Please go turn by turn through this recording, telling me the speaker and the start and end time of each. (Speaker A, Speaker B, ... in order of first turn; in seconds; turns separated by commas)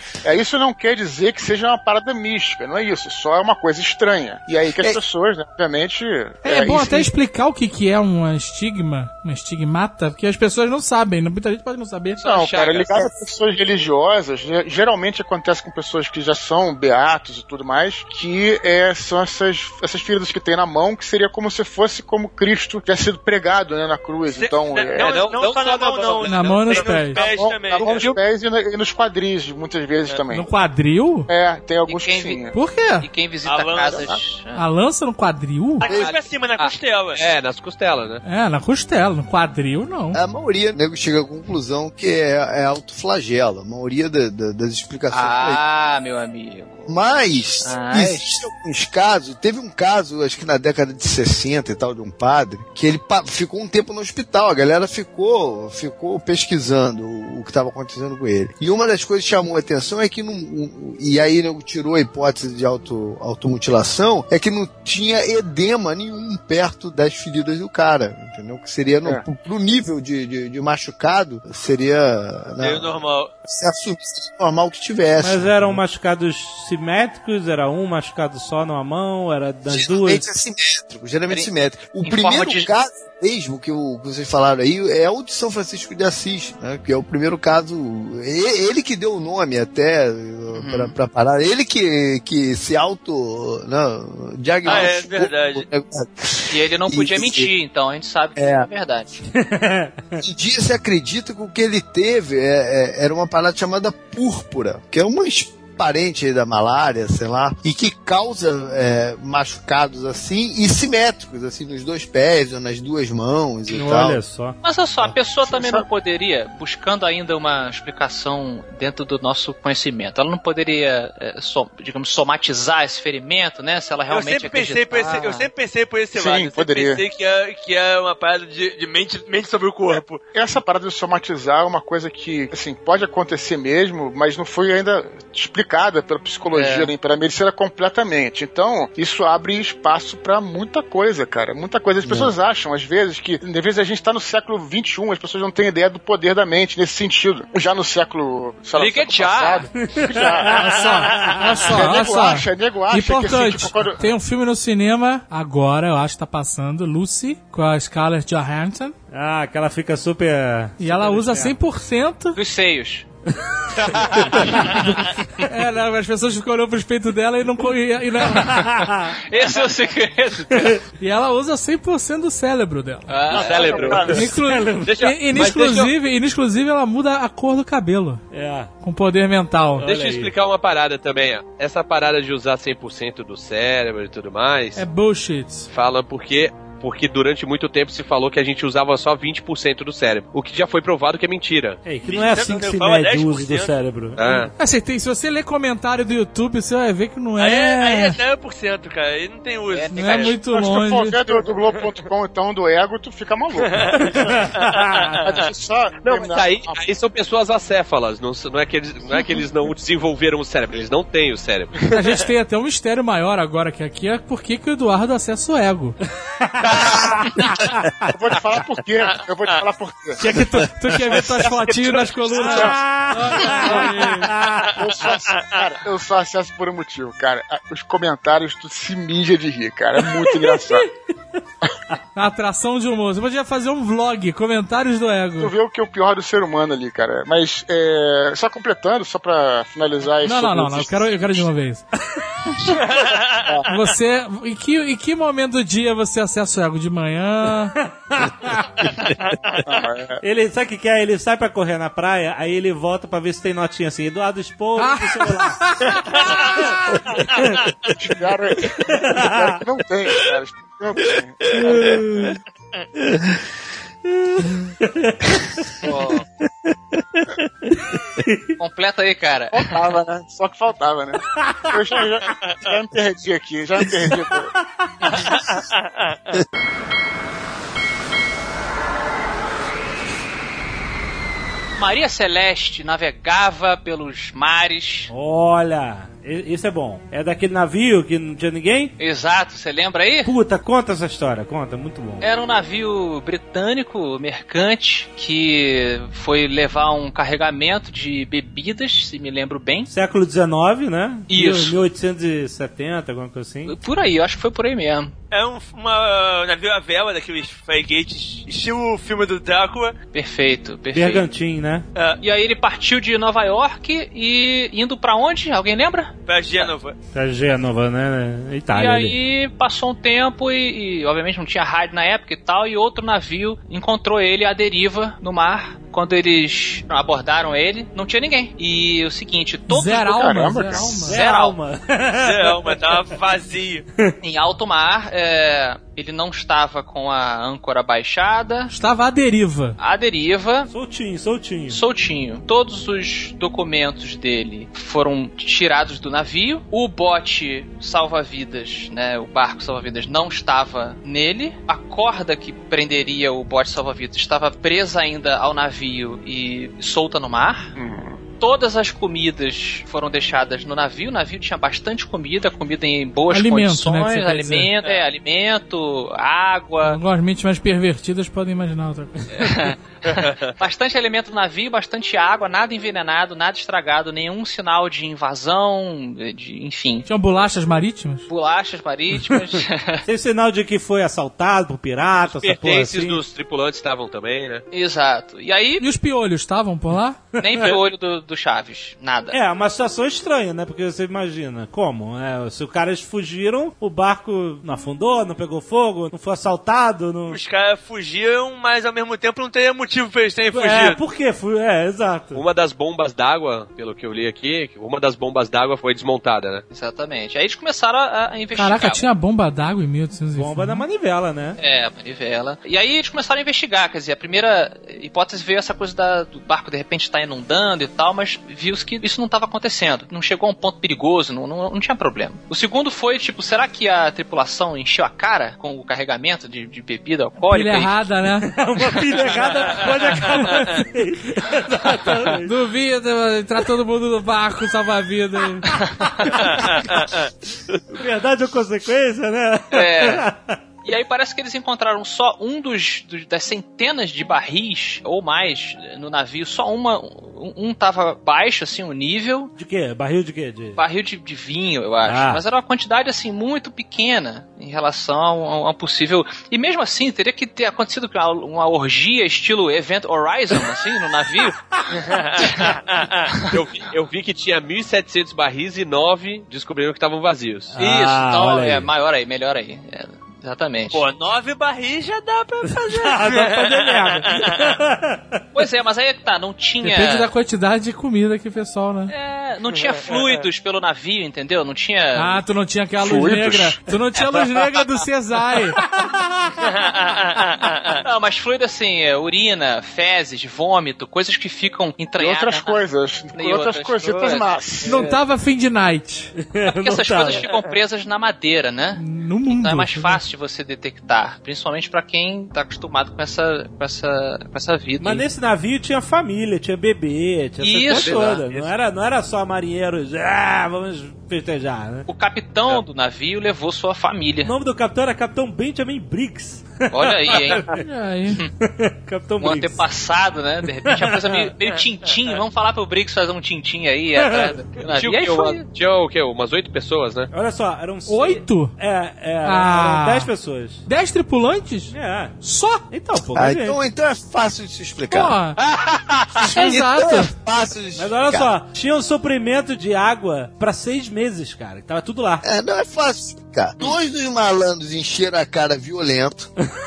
Speaker A: 0.2-7.1, Speaker B: 6.4-12.2, Speaker C: 12.2-12.9, Speaker A: 12.2-25.3, Speaker D: 12.3-12.8, Speaker E: 24.3-28.2, Speaker D: 25.1-26.4, Speaker B: 26.3-27.2, Speaker A: 27.1-30.5, Speaker B: 30.3-31.3, Speaker A: 31.3-32.5, Speaker C: 31.9-32.4, Speaker B: 32.5-33.1, Speaker C: 33.0-34.6, Speaker E: 33.5-34.1, Speaker B: 34.5-35.9, Speaker E: 35.8-37.2, Speaker F: 35.9-36.1, Speaker D: 35.9-38.2, Speaker B: 38.2-40.2, Speaker F: 40.1-45.6, Speaker C: 45.1-46.9, Speaker F: 46.9-75.8, Speaker C: 47.6-48.2, Speaker E: 72.6-73.3, Speaker G: 75.2-80.3, Speaker F: 79.7-97.5, Speaker C: 81.3-82.7, Speaker C: 90.5-91.0, Speaker E: 94.7-95.7, Speaker C: 96.5-99.2, Speaker F: 98.4-98.7, Speaker G: 99.3-100.2, Speaker F: 100.2-114.2, Speaker G: 113.7-114.6, Speaker C: 114.6-125.5, Speaker A: 115.5-115.9, Speaker E: 124.1-130.2, Speaker A: 126.1-127.0, Speaker A: 130.3-154.1, Speaker C: 136.5-136.9, Speaker F: 142.0-142.3, Speaker C: 148.8-149.7, Speaker G: 149.8-151.7, Speaker B: 150.5-158.9, Speaker G: 159.1-161.6, Speaker B: 160.8-162.4, Speaker C: 162.3-163.1, Speaker G: 164.1-164.7, Speaker C: 164.5-164.8, Speaker B: 165.4-168.7, Speaker G: 168.3-169.1, Speaker C: 168.4-170.8, Speaker B: 171.0-173.1, Speaker C: 173.1-174.1, Speaker D: 173.3-174.2, Speaker E: 173.3-174.1, Speaker A: 173.3-174.1, Speaker B: 174.1-178.2, Speaker G: 174.2-175.1, Speaker D: 174.8-175.9, Speaker G: 178.3-178.7, Speaker B: 178.8-179.9, Speaker G: 179.8-180.3, Speaker D: 179.8-184.8, Speaker B: 184.8-185.7, Speaker D: 185.7-191.8, Speaker G: 191.8-194.5, Speaker E: 192.0-193.8, Speaker D: 194.2-194.5, Speaker B: 194.6-198.2, Speaker E: 197.4-200.4, Speaker C: 199.7-200.4, Speaker B: 199.9-201.2, Speaker A: 200.4-204.5, Speaker E: 203.6-204.1, Speaker G: 204.0-205.2, Speaker E: 204.6-205.5, Speaker A: 205.2-206.8, Speaker D: 206.0-211.9, Speaker B: 211.9-216.0, Speaker G: 216.4-217.7, Speaker A: 218.1-220.2, Speaker B: 220.2-224.3, Speaker G: 222.4-224.8, Speaker A: 222.4-222.8, Speaker E: 224.6-225.7, Speaker A: 224.7-230.9, Speaker G: 230.0-231.4, Speaker B: 232.2-235.5, Speaker A: 235.4-241.5, Speaker B: 240.2-241.8, Speaker A: 242.7-243.7, Speaker E: 242.7-243.6, Speaker B: 243.7-247.8, Speaker G: 247.8-248.9, Speaker A: 249.6-250.2, Speaker G: 250.2-255.6, Speaker B: 254.8-256.6, Speaker G: 256.1-257.6, Speaker E: 256.2-256.6, Speaker E: 257.1-257.9, Speaker A: 258.0-262.0, Speaker G: 258.9-259.6, Speaker G: 261.6-262.2, Speaker G: 264.1-265.6, Speaker C: 265.8-266.2, Speaker G: 268.2-268.6, Speaker C: 268.6-269.9, Speaker A: 269.5-274.5, Speaker G: 271.4-271.8, Speaker E: 272.4-272.8, Speaker G: 274.1-275.1, Speaker E: 275.1-276.3, Speaker C: 281.8-285.1, Speaker G: 285.1-288.9, Speaker C: 289.0-290.3, Speaker G: 290.2-292.3, Speaker C: 292.2-299.9, Speaker G: 299.9-303.8, Speaker C: 301.3-301.8, Speaker C: 303.7-305.1, Speaker E: 305.3-309.9, Speaker C: 310.1-311.3, Speaker G: 310.9-311.9, Speaker E: 311.9-312.2, Speaker C: 312.2-316.1, Speaker E: 316.3-317.0, Speaker G: 317.1-319.2, Speaker C: 318.7-330.1, Speaker B: 329.7-331.2, Speaker A: 330.0-331.1, Speaker G: 331.0-333.0, Speaker C: 331.1-331.6, Speaker E: 332.1-333.9, Speaker C: 334.2-338.7, Speaker B: 338.7-339.8, Speaker C: 339.8-340.7, Speaker G: 340.7-341.8, Speaker C: 341.7-357.7, Speaker A: 357.8-358.2, Speaker C: 358.4-367.0, Speaker B: 363.3-364.7, Speaker E: 364.8-365.1, Speaker B: 366.8-369.7, Speaker C: 369.3-377.1, Speaker B: 377.1-378.3, Speaker C: 378.3-380.1, Speaker G: 380.1-383.2, Speaker D: 382.2-384.6, Speaker C: 384.7-385.8, Speaker B: 385.8-387.2, Speaker G: 387.4-387.7, Speaker C: 387.4-389.4, Speaker G: 389.3-397.4, Speaker E: 397.3-401.0, Speaker G: 400.5-402.4, Speaker D: 402.3-406.6, Speaker C: 406.7-409.1, Speaker B: 408.6-410.8, Speaker G: 410.4-411.6, Speaker C: 411.6-428.1, Speaker B: 427.5-428.6, Speaker G: 428.4-432.6, Speaker B: 430.3-430.8, Speaker B: 432.4-435.8, Speaker C: 435.8-436.5, Speaker G: 436.3-436.9, Speaker G: 437.9-440.6, Speaker C: 439.7-440.3, Speaker C: 440.8-449.5, Speaker G: 449.6-450.8, Speaker C: 450.8-461.7, Speaker G: 452.1-452.4, Speaker E: 462.0-463.3, Speaker C: 462.4-462.8, Speaker C: 463.3-463.6, Speaker D: 463.5-467.8, Speaker C: 467.8-471.0, Speaker G: 467.8-468.9, Speaker E: 470.9-474.7, Speaker G: 472.7-475.4, Speaker C: 475.5-477.3, Speaker B: 476.8-479.1, Speaker C: 479.1-482.4, Speaker E: 479.8-480.4, Speaker B: 482.1-485.8, Speaker A: 483.0-483.8, Speaker G: 486.0-486.6, Speaker E: 486.6-488.0, Speaker C: 488.0-492.8, Speaker A: 492.2-495.1, Speaker C: 493.3-495.2, Speaker B: 494.9-496.3, Speaker G: 496.4-497.5, Speaker C: 496.7-505.2, Speaker E: 497.4-497.7, Speaker B: 499.0-500.2, Speaker G: 505.0-512.1, Speaker C: 507.6-508.5, Speaker C: 512.1-514.5, Speaker G: 514.4-517.8, Speaker C: 516.9-517.6, Speaker B: 517.7-518.4, Speaker G: 518.6-519.8, Speaker C: 519.4-525.6, Speaker G: 520.8-521.2, Speaker D: 524.8-527.3, Speaker G: 527.3-530.8, Speaker B: 528.1-528.8, Speaker B: 529.4-530.3, Speaker B: 530.9-532.8, Speaker G: 531.9-533.8, Speaker F: 533.4-538.5, Speaker B: 535.1-535.6, Speaker B: 536.5-537.3, Speaker G: 538.0-542.5, Speaker F: 542.4-546.5